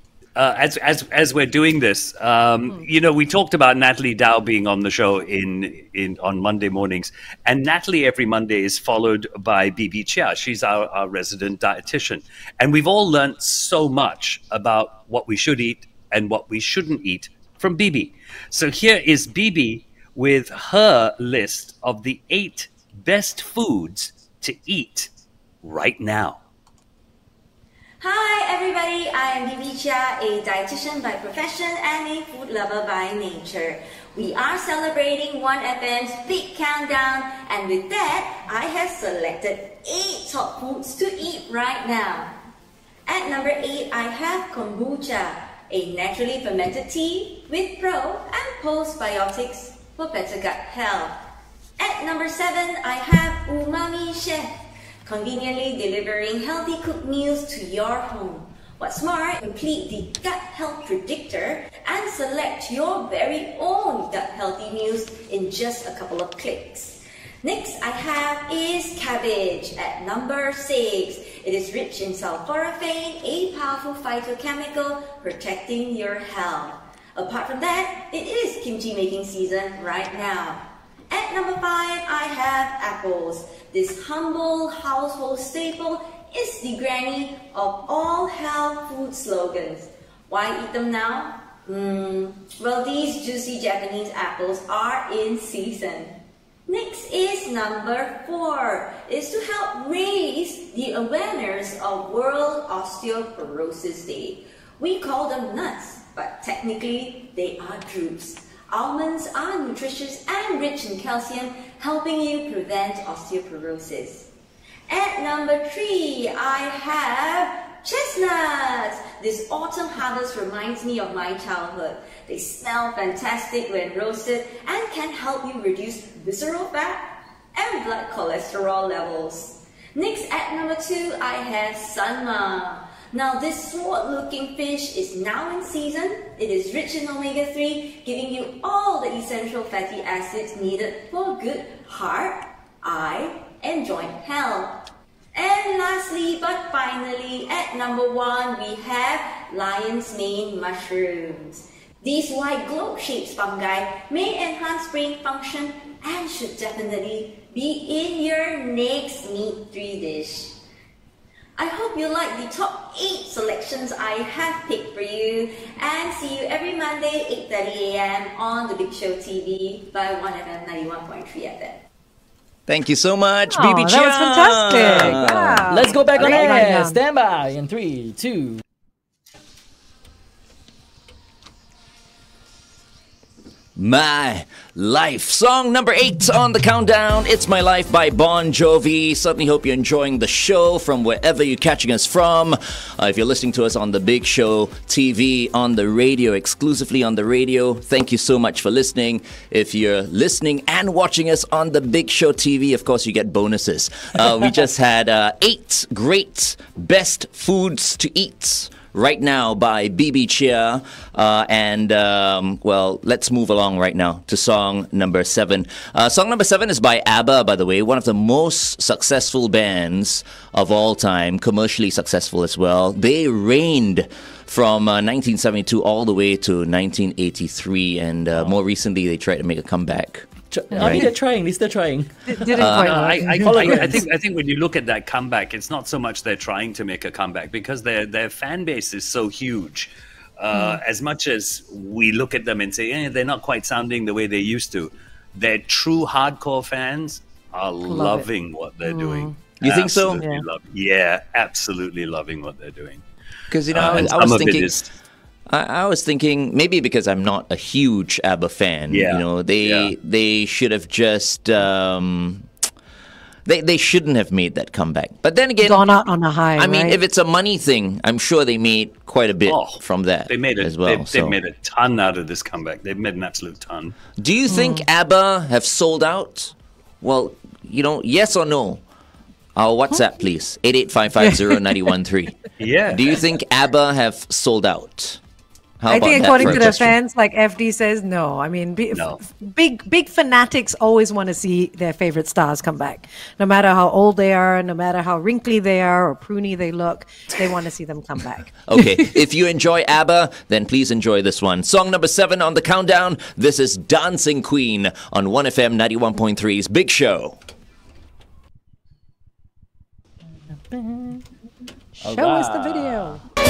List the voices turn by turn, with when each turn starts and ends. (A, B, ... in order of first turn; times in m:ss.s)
0:00.4-0:25.1 A
0:25.6-0:26.4 A
0:28.0-0:42.4 B
0:43.1-0:51.2 B
0:51.8-0:54.5 B
0:55.0-1:54.3 B
1:54.9-2:24.8 B
2:25.4-2:40.6 B
2:41.6-2:51.8 B
2:52.7-2:55.6 C
2:53.5-2:57.0 D
2:55.7-2:58.6 E
3:03.8-3:51.1 C
3:50.5-3:52.1 E
3:52.3-3:53.9 D
3:52.6-3:53.1 C
3:52.8-4:13.0 A
3:53.4-3:54.0 E
4:00.5-4:00.8 D
4:07.9-4:08.3 D
4:08.8-4:09.3 D
4:09.6-4:10.2 C
4:13.5-4:14.7 C
4:13.7-4:14.9 A
4:15.5-4:22.5 C
4:18.9-4:19.9 A
4:23.4-4:25.9 C
4:25.6-4:27.0 D
4:26.6-4:31.4 C
4:29.4-4:34.0 A
4:34.2-4:38.8 C
4:34.5-4:34.8 D
4:39.6-4:45.2 C
4:41.2-4:41.6 D
4:42.6-4:43.2 A
4:45.8-4:46.9 C
4:45.9-4:59.1 D
4:46.4-4:46.7 A
4:48.9-4:49.2 A
4:58.7-5:07.4 C
5:10.7-5:11.2 E
5:12.0-5:13.2 D
5:12.0-5:13.2 E